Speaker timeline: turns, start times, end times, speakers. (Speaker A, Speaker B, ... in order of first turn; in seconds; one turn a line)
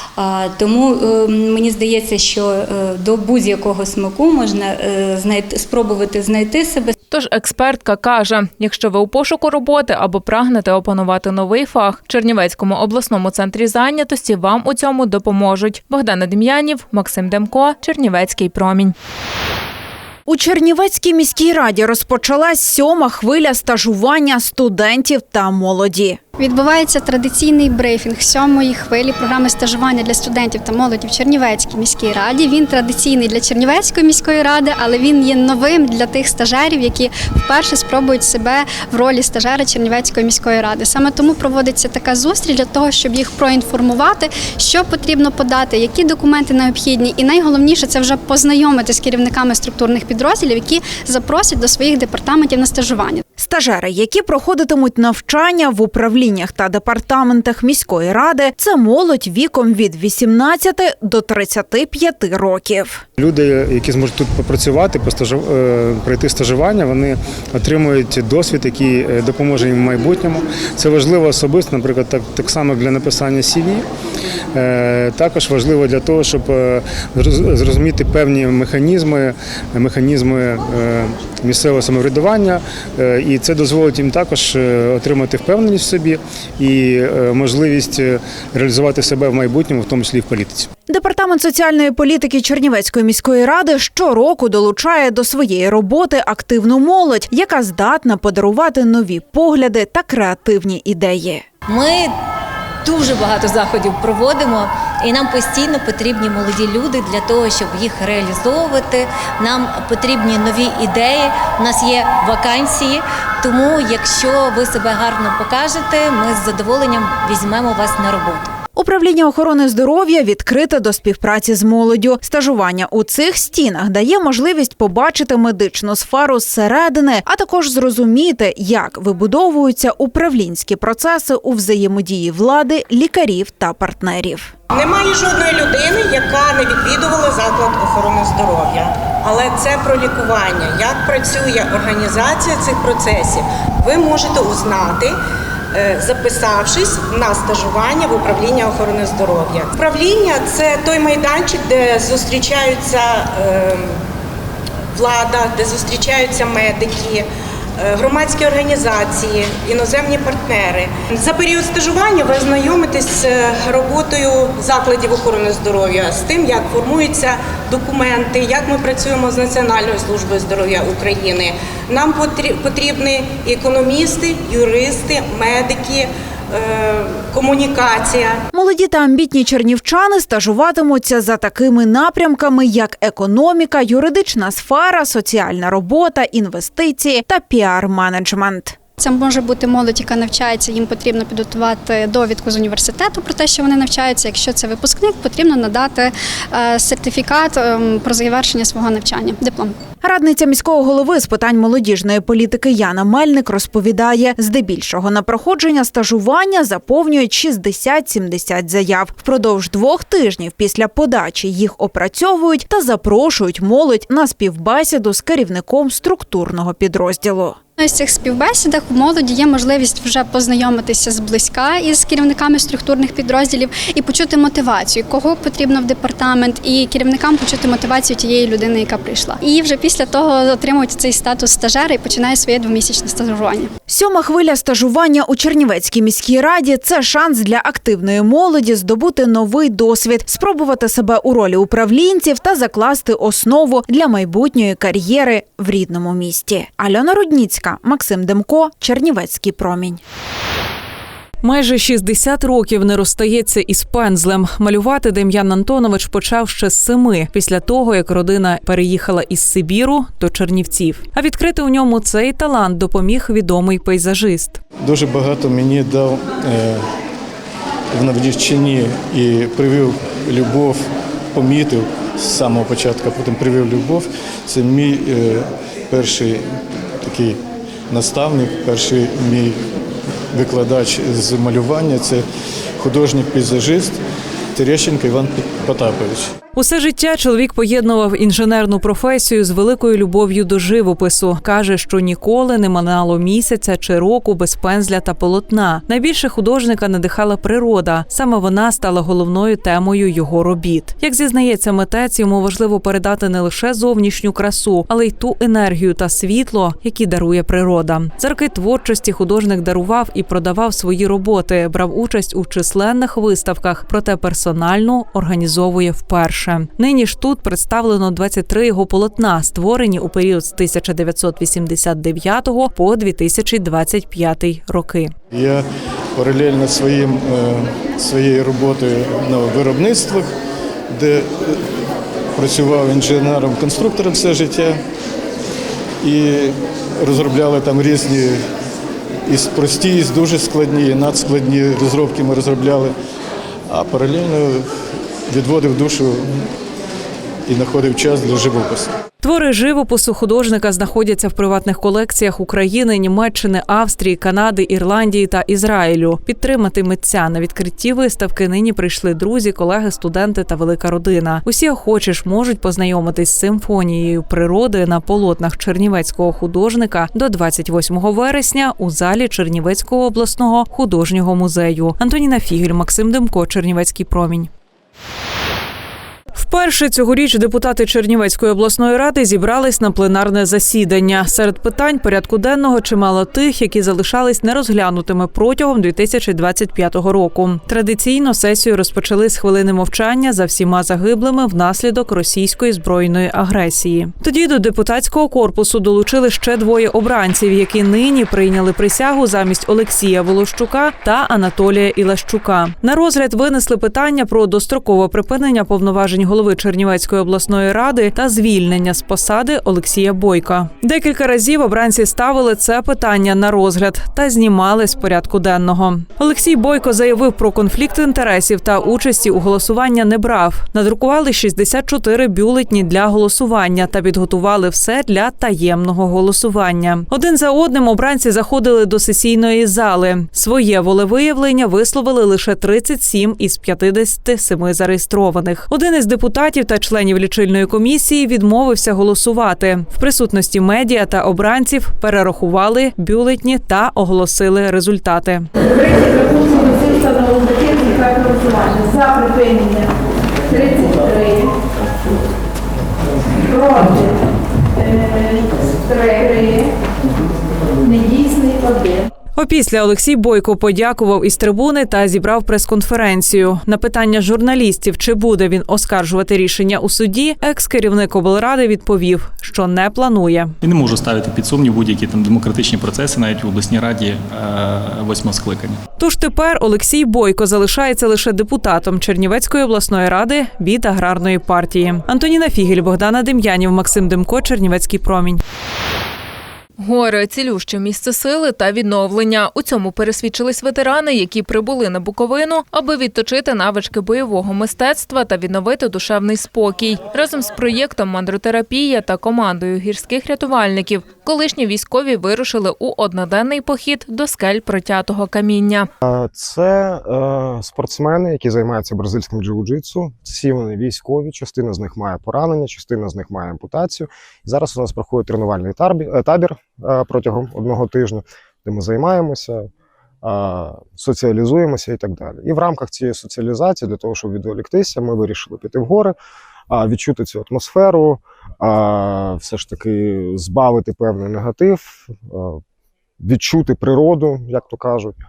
Speaker A: 0.2-6.9
Speaker B: 7.1-18.9
Speaker C: 20.3-26.2
Speaker D: 26.4-53.2
Speaker C: 53.4-63.0
Speaker E: 63.2-73.8
Speaker E: 74.5-90.7
Speaker C: 90.9-101.5
Speaker F: 101.7-102.1
Speaker F: 102.8-118.5
Speaker C: 118.8-134.5
Speaker G: 134.7-145.1
Speaker G: 145.7-153.8
Speaker G: 154.9-157.2
Speaker G: 157.8-178.4
Speaker C: 178.5-188.8
Speaker D: 189.0-199.8
Speaker C: 200.0-217.6
Speaker D: 217.8-233.7
Speaker C: 233.9-250.0
Speaker H: 251.4-264.6
Speaker I: 264.8-266.8
Speaker I: 267.9-270.8
Speaker I: 271.3-276.4
Speaker I: 277.0-277.4
Speaker I: 277.9-279.6
Speaker I: 280.3-282.2
Speaker I: 282.8-284.0
Speaker I: 284.5-286.2
Speaker H: 286.5-325.1
Speaker I: 325.3-325.6
Speaker I: 326.1-330.3
Speaker I: 330.9-331.6
Speaker I: 332.4-334.8
Speaker I: 336.0-338.4
Speaker I: 339.3-342.9
Speaker I: 343.7-344.6
Speaker I: 345.3-346.4
Speaker I: 347.5-348.9
Speaker H: 349.2-374.5
Speaker H: 376.3-445.5
Speaker J: 446.0-449.8
Speaker J: 450.5-451.4
Speaker J: 453.6-453.9
Speaker J: 455.9-456.4
Speaker J: 457.9-458.9
Speaker H: 459.3-470.5
Speaker K: 470.6-475.8
Speaker H: 476.0-485.4
Speaker B: 486.8-505.9
Speaker L: 506.0-519.7
Speaker L: 520.2-526.1
Speaker L: 526.7-532.6
Speaker L: 533.2-535.2